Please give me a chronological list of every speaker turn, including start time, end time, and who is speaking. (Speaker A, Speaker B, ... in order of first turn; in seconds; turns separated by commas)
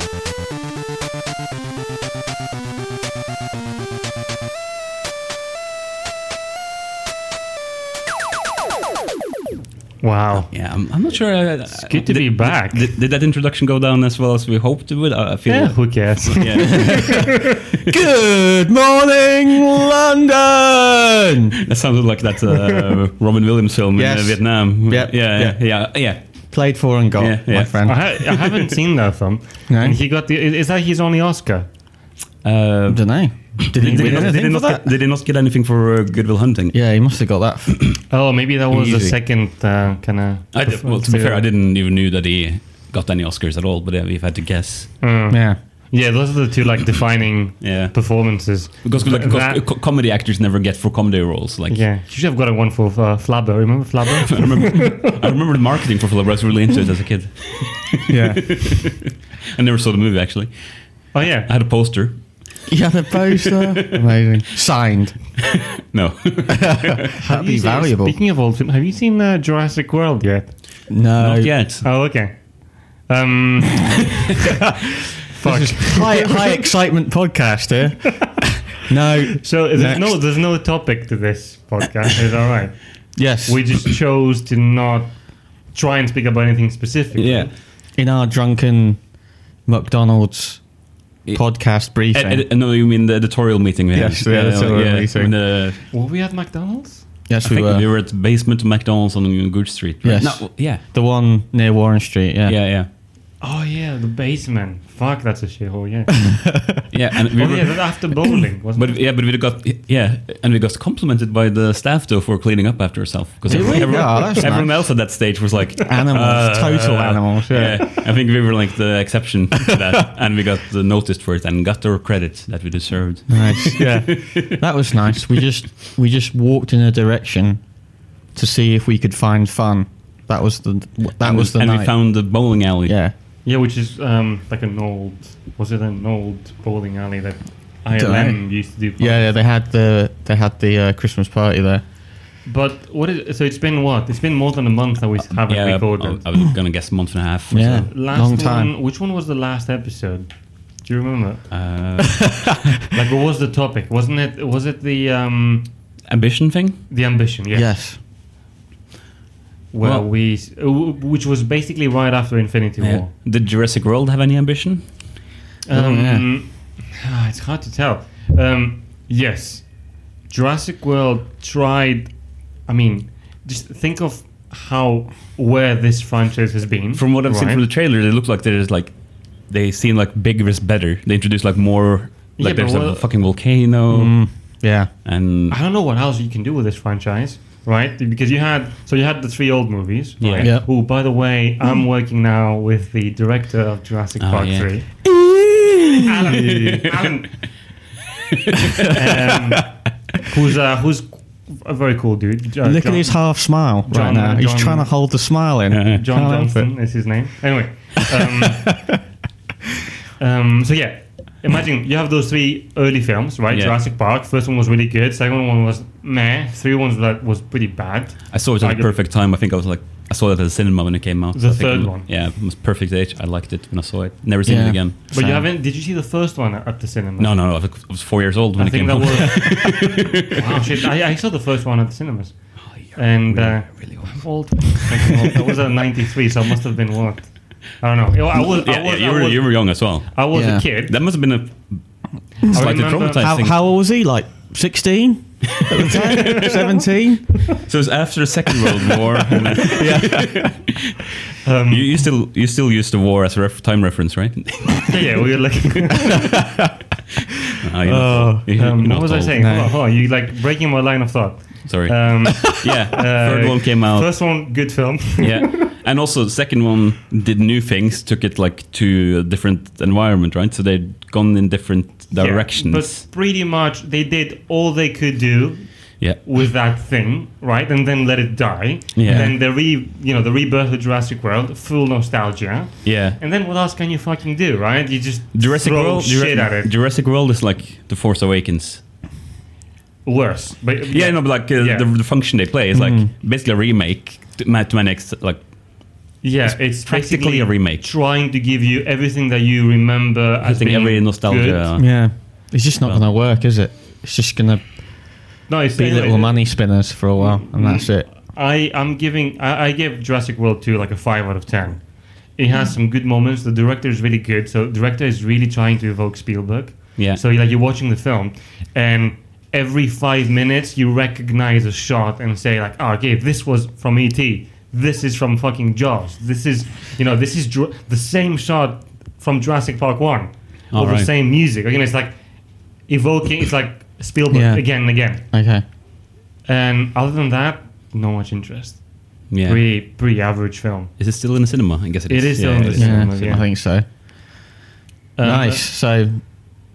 Speaker A: 10.0-10.5, Speaker B: 10.5-17.4, Speaker A: 11.7-12.9, Speaker A: 15.5-17.6, Speaker C: 17.9-21.6, Speaker B: 21.6-26.2, Speaker C: 24.0-25.8, Speaker C: 26.5-28.1, Speaker B: 27.2-28.4, Speaker A: 27.8-31.7, Speaker C: 29.7-30.0, Speaker B: 32.4-33.1, Speaker C: 32.9-34.9, Speaker B: 33.6-36.8, Speaker A: 33.8-34.3, Speaker C: 36.7-38.1, Speaker A: 38.1-41.5, Speaker C: 38.7-39.2, Speaker B: 40.5-44.9, Speaker A: 45.0-49.6, Speaker C: 45.3-45.6, Speaker B: 47.6-48.3, Speaker B: 48.8-51.9, Speaker A: 51.7-55.3, Speaker B: 54.3-60.5, Speaker C: 58.1-58.9, Speaker A: 61.1-61.5, Speaker B: 61.2-62.4, Speaker C: 62.7-65.3, Speaker B: 63.4-64.0, Speaker B: 65.8-67.0, Speaker C: 66.5-68.2, Speaker A: 67.2-70.6, Speaker C: 70.9-71.6, Speaker B: 71.2-71.8, Speaker A: 71.8-74.5, Speaker A: 75.3-76.6, Speaker C: 75.3-80.2, Speaker A: 79.4-87.5, Speaker C: 83.2-83.8, Speaker B: 87.2-87.5, Speaker C: 88.0-89.0, Speaker C: 89.7-90.7, Speaker B: 91.3-95.8, Speaker C: 91.3-92.5, Speaker C: 93.9-95.3, Speaker A: 95.9-97.1, Speaker C: 97.3-97.9, Speaker B: 97.4-100.8, Speaker C: 100.0-102.6, Speaker B: 102.5-102.9, Speaker A: 103.4-106.6, Speaker C: 106.3-106.7, Speaker B: 106.9-108.0, Speaker A: 107.4-109.0, Speaker B: 108.8-124.6, Speaker A: 113.5-114.4, Speaker C: 113.5-115.2, Speaker C: 115.9-117.9, Speaker C: 123.3-127.6, Speaker C: 128.3-132.2, Speaker B: 131.2-133.0, Speaker C: 132.9-133.1, Speaker A: 133.4-139.3, Speaker C: 138.0-141.8, Speaker A: 142.4-146.2, Speaker B: 145.3-147.9, Speaker C: 147.5-148.7, Speaker A: 147.9-151.6, Speaker B: 151.5-152.4, Speaker A: 152.9-155.7, Speaker B: 156.1-156.8, Speaker A: 156.9-157.8, Speaker C: 157.5-158.0, Speaker A: 159.7-163.1, Speaker B: 162.8-164.9, Speaker A: 165.7-177.6, Speaker C: 165.7-166.3, Speaker B: 176.9-185.6, Speaker A: 182.4-183.1, Speaker C: 183.9-184.9, Speaker A: 185.5-195.0, Speaker B: 190.2-190.5, Speaker C: 190.4-190.7, Speaker B: 194.2-194.7, Speaker C: 195.1-196.4, Speaker A: 196.0-197.5, Speaker B: 196.5-197.0, Speaker B: 198.5-198.9, Speaker A: 198.8-204.9, Speaker C: 202.6-206.7, Speaker B: 205.7-206.0, Speaker A: 205.9-209.0, Speaker C: 208.2-209.0, Speaker A: 210.2-218.9, Speaker B: 213.5-213.8, Speaker B: 218.3-225.0, Speaker A: 221.3-222.1, Speaker C: 224.4-225.5, Speaker A: 225.1-227.8, Speaker B: 227.2-230.6, Speaker A: 228.6-241.0, Speaker B: 232.6-235.1, Speaker B: 238.4-243.6, Speaker C: 240.3-240.7, Speaker A: 242.4-243.3, Speaker C: 243.2-247.6, Speaker B: 245.6-246.5, Speaker A: 246.0-246.7, Speaker B: 247.5-251.1, Speaker C: 249.7-250.6, Speaker A: 251.4-252.0, Speaker B: 251.7-255.0, Speaker A: 254.9-256.4, Speaker B: 257.6-259.4, Speaker C: 257.8-258.6, Speaker A: 258.6-265.5, Speaker C: 259.4-259.7, Speaker B: 261.6-264.1, Speaker B: 265.2-273.0, Speaker A: 272.1-286.7, Speaker B: 278.9-279.3, Speaker C: 279.1-279.4, Speaker B: 282.8-283.2, Speaker B: 285.3-288.8, Speaker A: 290.1-291.9, Speaker B: 290.9-295.4, Speaker C: 292.7-293.1, Speaker A: 296.2-301.7, Speaker B: 296.4-297.9, Speaker B: 300.4-301.9, Speaker C: 301.8-305.2, Speaker A: 305.5-335.2, Speaker C: 305.8-308.1, Speaker B: 330.7-331.1, Speaker C: 334.3-335.6, Speaker A: 336.4-340.9, Speaker B: 339.3-339.6, Speaker B: 341.0-343.4, Speaker A: 342.1-343.5, Speaker C: 342.7-343.9, Speaker A: 345.2-345.7, Speaker C: 345.2-346.5